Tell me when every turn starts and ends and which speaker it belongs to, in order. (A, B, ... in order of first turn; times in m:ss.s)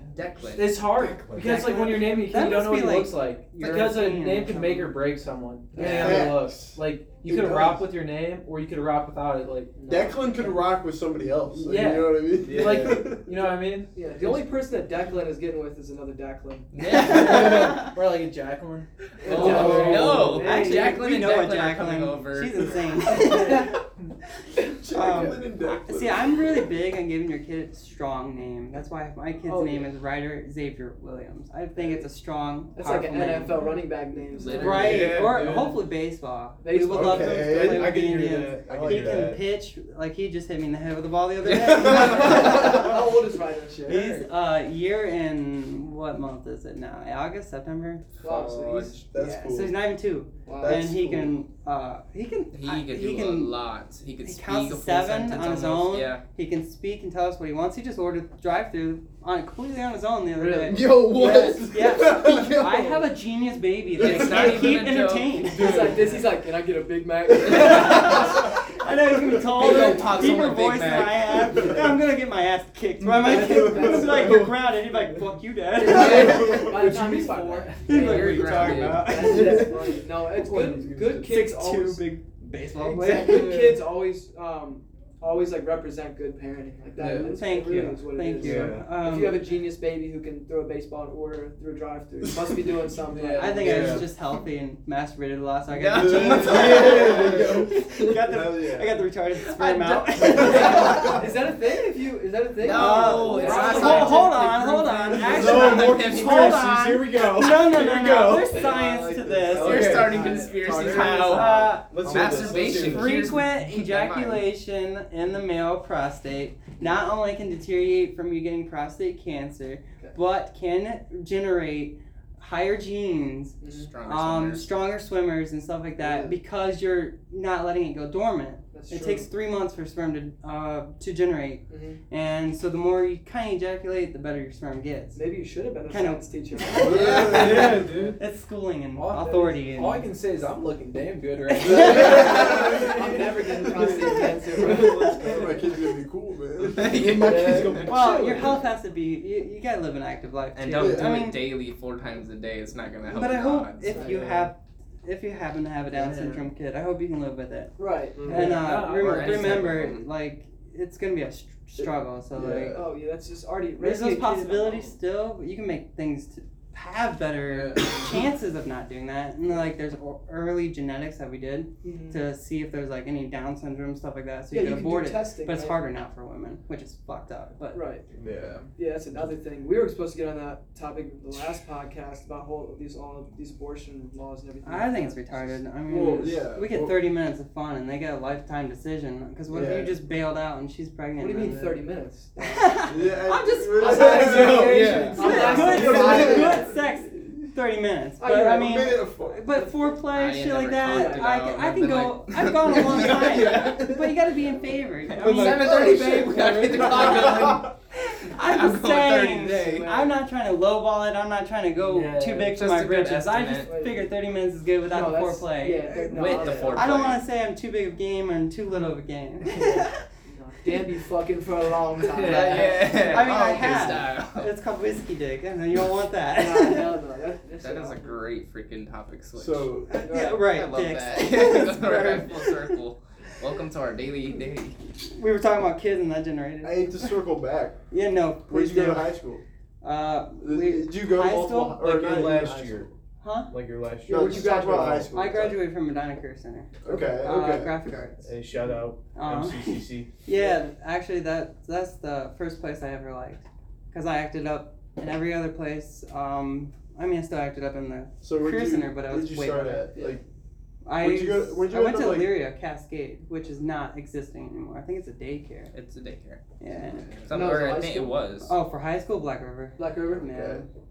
0:00.1-0:01.1 A
0:00.5-0:09.8 B
0:01.1-0:01.7 C
0:01.4-0:05.0 D
0:05.7-0:06.4 E
0:05.8-0:07.8 F
0:09.8-0:10.6 E
0:09.9-0:13.3 F
0:11.7-0:14.5 B
0:11.8-0:12.2 E
0:12.4-0:13.2 C
0:13.9-0:16.7 E
0:16.7-0:17.9 A
0:16.8-0:17.9 D
0:17.0-0:20.3 B
0:19.2-0:21.0 E
0:19.2-0:23.3 A
0:19.4-0:23.8 D
0:19.4-0:20.2 C
0:23.1-0:23.8 E
0:24.6-0:26.7 F
0:24.9-0:33.7 D
0:29.4-0:29.9 E
0:31.8-0:32.0 E
0:32.8-0:35.2 E
0:34.3-0:35.3 A
0:34.5-0:43.0 D
0:34.6-0:35.0 B
0:34.8-0:35.8 C
0:36.6-0:37.5 E
0:36.9-0:38.0 F
0:36.9-0:39.5 C
0:38.7-0:39.4 F
0:41.8-0:44.1 E
0:41.8-0:42.4 A
0:43.9-0:48.0 D
0:43.9-0:44.2 B
0:48.2-0:49.0 A
0:48.2-0:49.0 E
0:49.1-0:49.8 F
0:49.1-0:53.6 D
0:50.5-0:50.8 E
0:50.6-0:51.3 C
0:52.5-0:56.2 A
0:54.2-1:05.9 D
1:00.4-1:01.0 E
1:00.6-1:02.9 C
1:02.3-1:03.0 E
1:04.0-1:05.5 A
1:05.5-1:08.4 E
1:05.5-1:06.2 C
1:07.4-1:16.8 D
1:09.6-1:11.6 A
1:13.0-1:15.2 C
1:13.3-1:14.3 E
1:15.7-1:22.1 E
1:16.0-1:16.4 C
1:16.0-1:18.2 B
1:17.8-1:20.0 D
1:17.9-1:19.1 A
1:18.4-1:21.4 C
1:21.3-1:23.5 D
1:22.8-1:34.0 E
1:23.0-1:23.8 C
1:27.0-1:27.4 C
1:27.0-1:29.4 D
1:28.4-1:29.0 C
1:33.1-1:34.0 B
1:33.4-1:41.3 D
1:33.6-1:34.1 C
1:35.7-1:37.4 A
1:36.0-1:38.6 C
1:36.2-1:37.0 F
1:38.2-1:39.0 F
1:39.5-1:41.1 A
1:40.4-1:44.5 E
1:42.6-1:44.4 A
1:42.7-1:49.8 D
1:43.4-1:44.2 B
1:45.1-1:46.7 A
1:45.1-1:48.6 C
1:48.5-1:52.0 F
1:49.5-1:54.5 A
1:49.6-1:50.2 C
1:49.8-1:50.9 B
1:50.1-1:50.6 E
1:51.0-1:53.2 C
1:51.2-2:15.2 D
2:03.6-2:03.9 E
2:03.7-2:04.7 A
2:06.0-2:06.3 E
2:08.7-2:09.3 E
2:11.7-2:12.0 E
2:15.2-2:17.9 E
2:15.9-2:20.1 D
2:16.8-2:18.2 C
2:19.0-2:25.4 B
2:21.5-2:22.6 D
2:21.8-2:23.0 F
2:21.8-2:22.2 C
2:22.2-2:25.4 E
2:24.7-2:24.9 C
2:24.7-2:27.8 F
2:26.6-2:27.9 A
2:26.8-2:28.0 C
2:27.3-2:28.6 B
2:27.8-2:31.4 D
2:30.6-2:34.1 A
2:30.8-2:31.3 F
2:33.1-2:42.8 D
2:33.9-2:34.2 E
2:34.0-2:34.5 C
2:35.9-2:36.5 B
2:37.8-2:38.5 E
2:38.2-2:38.5 C
2:38.3-2:39.8 B
2:38.8-2:40.1 A
2:42.7-2:45.0 E
2:43.8-2:57.8 D
2:47.5-2:48.1 B
2:51.8-2:52.2 E
2:54.5-2:55.8 E
2:57.7-2:58.1 E
2:58.2-2:58.6 C
2:58.8-3:05.6 E
3:04.6-3:11.8 D
3:05.9-3:07.0 F
3:09.5-3:10.0 F
3:11.2-3:13.1 E
3:12.4-3:26.1 D
3:12.9-3:16.7 F
3:13.8-3:16.7 E
3:13.8-3:16.5 C
3:18.2-3:18.9 E
3:18.4-3:19.6 F
3:20.1-3:23.8 A
3:20.8-3:21.3 E
3:22.7-3:24.3 C
3:25.1-3:27.8 A
3:25.1-3:27.6 C
3:26.8-3:40.0 D
3:28.3-3:29.9 A
3:29.6-3:30.2 E
3:31.8-3:32.6 B
3:32.5-3:33.7 A
3:33.6-3:34.1 E
3:34.9-3:37.2 E
3:36.0-3:37.2 A
3:39.5-3:39.8 B
3:40.2-3:43.3 E
3:42.0-3:43.1 B
3:42.2-3:44.5 A
3:43.1-3:47.0 D
3:46.3-3:48.2 E
3:47.6-3:49.7 A
3:49.4-3:50.0 F
3:49.9-3:52.8 D
3:50.1-3:50.4 E
3:50.2-3:54.8 A
3:55.0-3:57.1 D
3:56.6-3:57.8 F
3:57.9-3:59.1 D
3:58.5-3:59.4 F
3:59.8-4:02.2 D
4:00.4-4:02.9 F
4:01.8-4:02.9 C
4:03.2-4:03.5 D
4:03.5-4:05.1 C
4:04.1-4:05.1 E
4:04.1-4:05.6 F
4:05.1-4:08.3 D
4:06.8-4:07.8 F
4:06.9-4:07.2 C
4:08.2-4:10.1 C
4:09.1-4:19.9 D
4:18.2-4:20.2 F
4:20.8-4:25.7 D
4:21.0-4:22.4 F
4:25.7-4:26.4 A
4:26.6-4:27.1 D
4:27.2-4:28.5 A
4:27.3-4:28.2 E
4:28.4-4:30.7 D
4:29.8-4:30.5 E
4:30.2-4:30.7 F